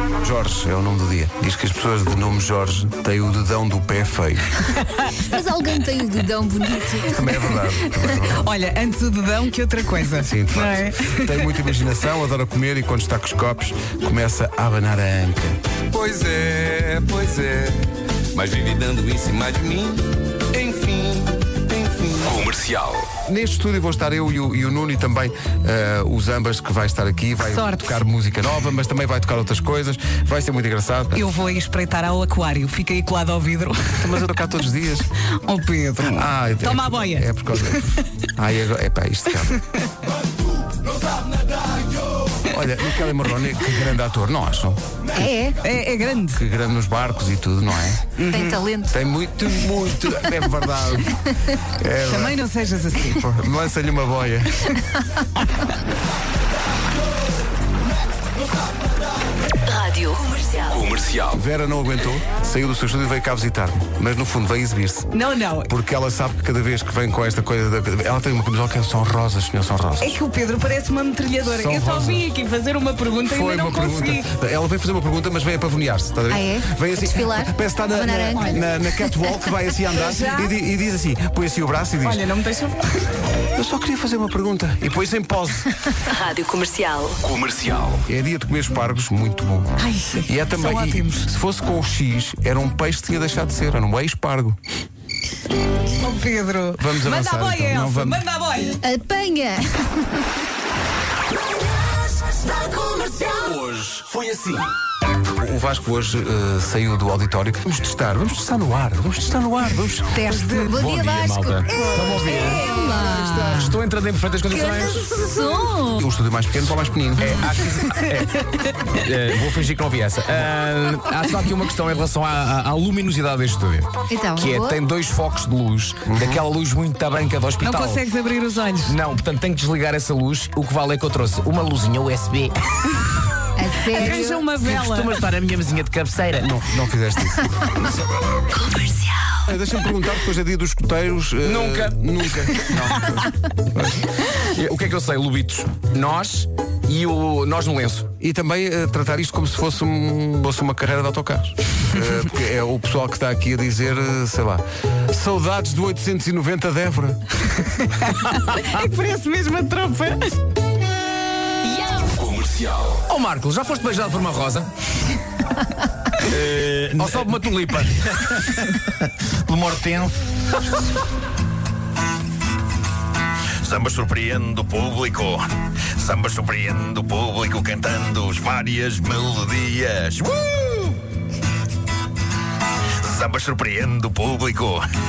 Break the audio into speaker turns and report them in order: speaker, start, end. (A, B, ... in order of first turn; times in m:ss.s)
0:00.2-0:04.7 A
0:05.2-0:07.6 B
0:07.0-0:08.5 A
0:08.4-0:11.5 C
0:10.2-0:15.6 A
0:15.9-0:17.8 D
0:18.3-0:22.5 D
0:22.2-0:23.0 E
0:23.2-0:31.2 A
0:27.4-0:28.0 C
0:31.1-0:34.2 C
0:34.0-0:35.1 A
0:35.4-0:38.0 C
0:36.0-0:39.6 A
0:42.4-0:44.8 A
0:45.1-0:45.6 B
0:45.6-0:46.4 C
0:46.3-0:48.2 A
0:48.2-0:48.6 C
0:48.3-0:48.9 B
0:48.9-0:54.7 A
0:52.1-0:53.3 C
0:59.7-1:00.8 F
1:01.3-1:10.2 A
1:05.1-1:05.7 C
1:10.0-1:14.3 C
1:11.4-1:12.3 A
1:13.3-1:22.3 A
1:16.3-1:18.6 B
1:20.0-1:20.5 C
1:22.0-1:23.1 C
1:23.5-1:25.8 A
1:26.1-1:27.2 F
1:27.5-1:27.9 E
1:28.0-1:29.7 A
1:29.8-1:31.3 C
1:30.2-1:34.6 A
1:36.0-1:38.8 C
1:36.8-1:38.2 A
1:38.8-1:40.4 B
1:42.8-1:43.0 C
1:43.4-1:44.7 E
1:45.3-1:50.5 A
1:50.1-1:50.8 C
1:50.4-1:53.8 B
1:50.7-1:55.3 E
1:52.4-1:53.1 C
1:54.5-1:56.0 B
1:56.0-1:57.5 A
1:57.2-2:08.0 E
2:04.1-2:04.8 B
2:06.1-2:06.4 A
2:07.6-2:09.0 C
2:08.8-2:12.5 E
2:13.6-2:14.5 B
2:13.9-2:15.2 C
2:14.6-2:16.5 E
2:16.3-2:18.0 A
2:18.5-2:19.1 F
2:19.5-2:24.0 A
2:21.4-2:22.0 E
2:24.2-2:28.1 E
2:28.2-2:37.2 A
2:37.6-2:40.3 C
2:42.2-2:43.0 G
2:43.0-2:44.7 E
2:46.3-2:47.9 G
2:46.9-2:48.0 E
2:49.5-2:50.1 G
2:53.6-2:55.4 G
2:56.0-3:00.9 G
3:03.0-3:04.8 G